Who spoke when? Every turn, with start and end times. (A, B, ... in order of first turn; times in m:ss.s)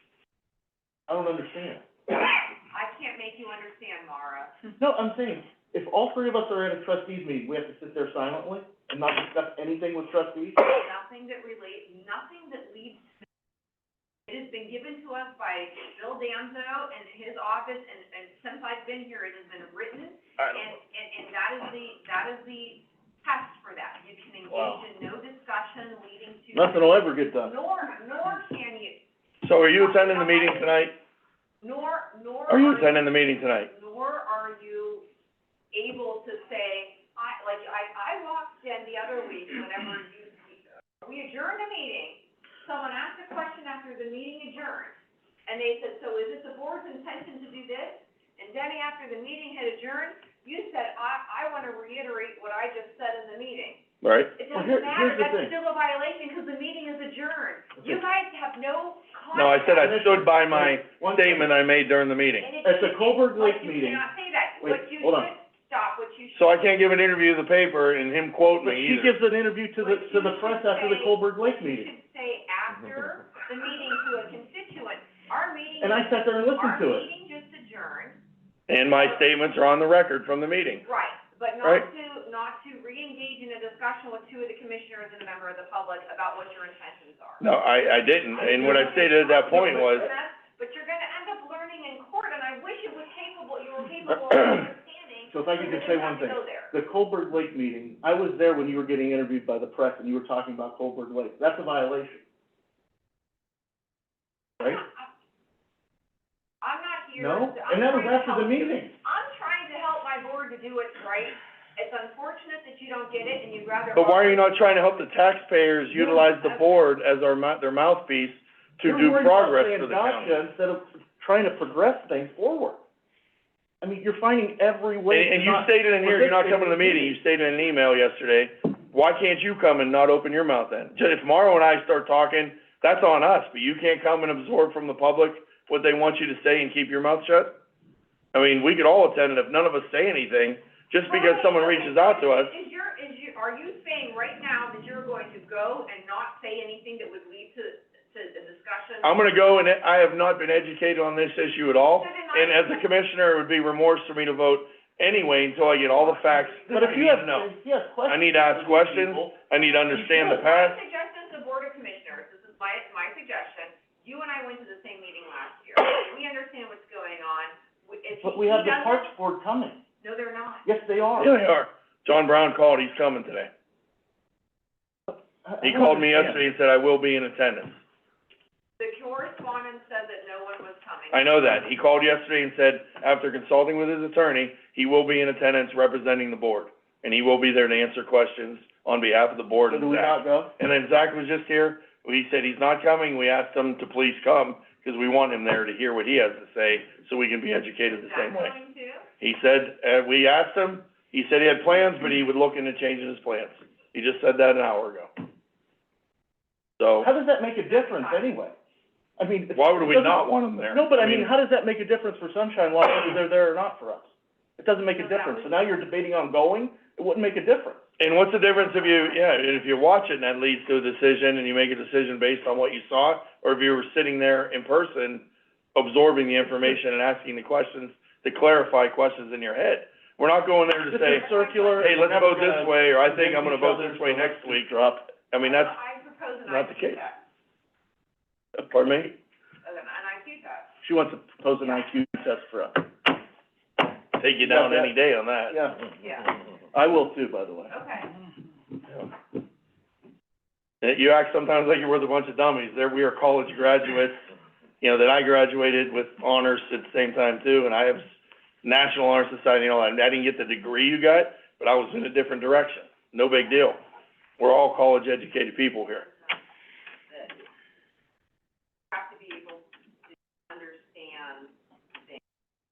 0:01.1-0:01.8 A
0:02.7-0:04.5 B
0:04.8-0:10.6 A
0:10.6-0:13.0 B
0:14.3-0:29.0 B
0:24.5-0:24.8 A
0:26.5-0:27.5 A
0:29.4-0:31.0 C
0:29.7-0:30.9 B
0:31.6-0:35.0 B
0:32.5-0:33.7 C
0:35.7-0:45.0 B
0:45.5-0:53.8 B
0:54.0-0:54.3 C
0:54.4-1:00.0 B
0:54.5-0:55.5 A
0:59.3-1:02.5 C
0:59.8-1:01.5 A
1:02.4-1:06.7 B
1:02.6-1:04.0 A
1:04.6-1:05.3 A
1:06.3-1:09.2 C
1:08.6-1:11.9 A
1:09.8-1:18.2 B
1:15.8-1:17.1 A
1:18.7-1:20.8 C
1:18.9-1:19.3 B
1:20.8-1:27.4 B
1:27.4-1:30.1 C
1:28.3-1:36.7 B
1:35.3-1:42.2 A
1:44.6-1:45.1 B
1:46.6-1:54.5 B
1:47.2-1:48.9 A
1:53.9-2:00.4 C
1:56.0-1:56.7 B
1:58.8-2:02.8 A
2:03.8-2:07.2 A
2:05.1-2:17.5 C
2:18.3-2:22.5 C
2:21.1-2:29.2 B
2:29.0-2:37.5 C
2:32.0-2:32.8 B
2:35.9-2:37.1 B
2:36.7-2:40.4 A
2:38.1-2:40.8 C
2:40.2-2:49.1 B
2:48.2-2:49.8 A
2:50.0-2:50.7 B
2:50.6-2:51.3 A
2:51.2-2:53.5 C
2:55.1-2:56.4 A
2:55.6-2:57.8 C
2:58.8-3:01.2 B
3:01.1-3:18.6 C
3:09.7-3:10.5 A
3:17.8-3:19.1 B
3:19.2-3:25.1 C
3:26.8-3:27.1 C
3:27.0-3:28.5 A
3:27.7-3:28.3 B
3:29.2-3:37.8 A
3:29.5-3:31.3 C
3:34.9-3:35.8 B
3:38.0-3:54.8 C
3:38.6-3:39.4 B
3:50.9-3:55.0 A
3:51.0-3:52.0 B
3:55.3-3:55.8 C
3:55.4-3:57.2 B
3:56.5-3:57.0 C
3:58.6-3:59.2 C
3:59.6-4:00.7 B
4:00.8-4:02.9 A
4:04.2-4:05.6 C
4:04.4-4:04.9 A
4:05.5-4:05.9 A
4:06.0-4:06.4 B
4:06.7-4:07.7 A
4:07.7-4:08.2 B
4:10.8-4:14.2 C
4:14.8-4:18.1 C
4:18.6-4:23.8 C
4:24.4-4:26.0 C
4:25.9-4:26.4 B
4:27.1-4:27.4 B
4:28.9-4:29.7 B
4:30.5-4:31.5 B